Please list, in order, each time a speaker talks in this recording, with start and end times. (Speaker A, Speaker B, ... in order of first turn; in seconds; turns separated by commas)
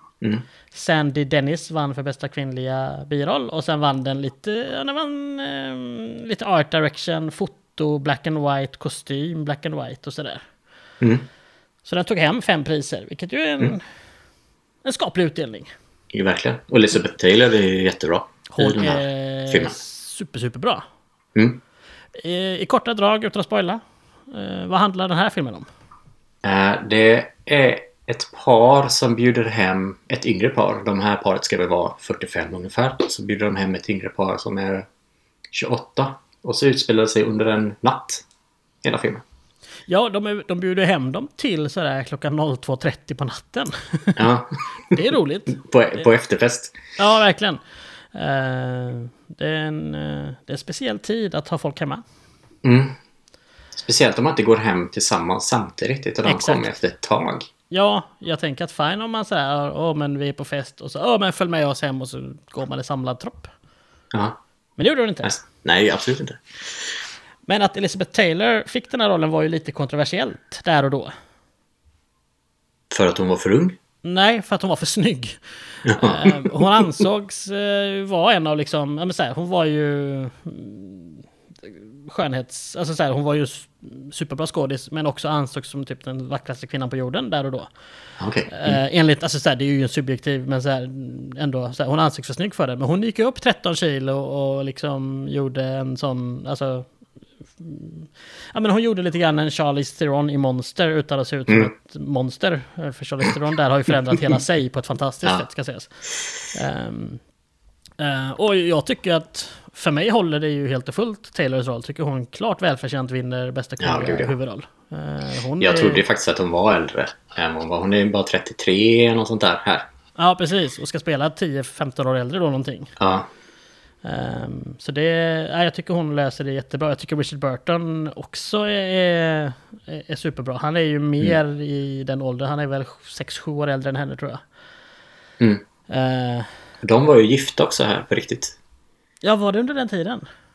Speaker A: 0.7-10.4, Speaker B: 11.0-11.2, Speaker A: 11.8-13.8, Speaker A: 14.8-15.7, Speaker B: 16.1-19.7, Speaker A: 18.5-20.8, Speaker B: 21.3-21.6, Speaker A: 22.2-25.6, Speaker B: 26.4-34.9, Speaker B: 35.5-38.2, Speaker B: 38.8-39.2, Speaker A: 39.9-44.2, Speaker B: 44.1-45.0, Speaker A: 44.9-45.6, Speaker B: 45.5-46.8, Speaker A: 47.0-47.6, Speaker A: 48.1-52.0, Speaker B: 52.6-53.0, Speaker B: 53.7-57.5, Speaker A: 56.2-56.7, Speaker A: 57.7-63.5, Speaker B: 64.1-64.4, Speaker A: 64.8-65.3, Speaker B: 65.2-66.4, Speaker A: 67.5-71.1, Speaker B: 72.9-73.8, Speaker A: 74.0-87.7, Speaker B: 75.8-76.8, Speaker B: 88.2-88.8, Speaker A: 88.5-96.9, Speaker A: 97.6-105.9, Speaker A: 106.5-107.2, Speaker A: 108.0-116.0, Speaker B: 113.8-114.3, Speaker B: 115.6-119.9, Speaker A: 120.2-122.9, Speaker B: 123.0-123.3, Speaker A: 124.0-134.4, Speaker A: 135.9-136.5, Speaker B: 136.8-138.6, Speaker A: 139.2-140.2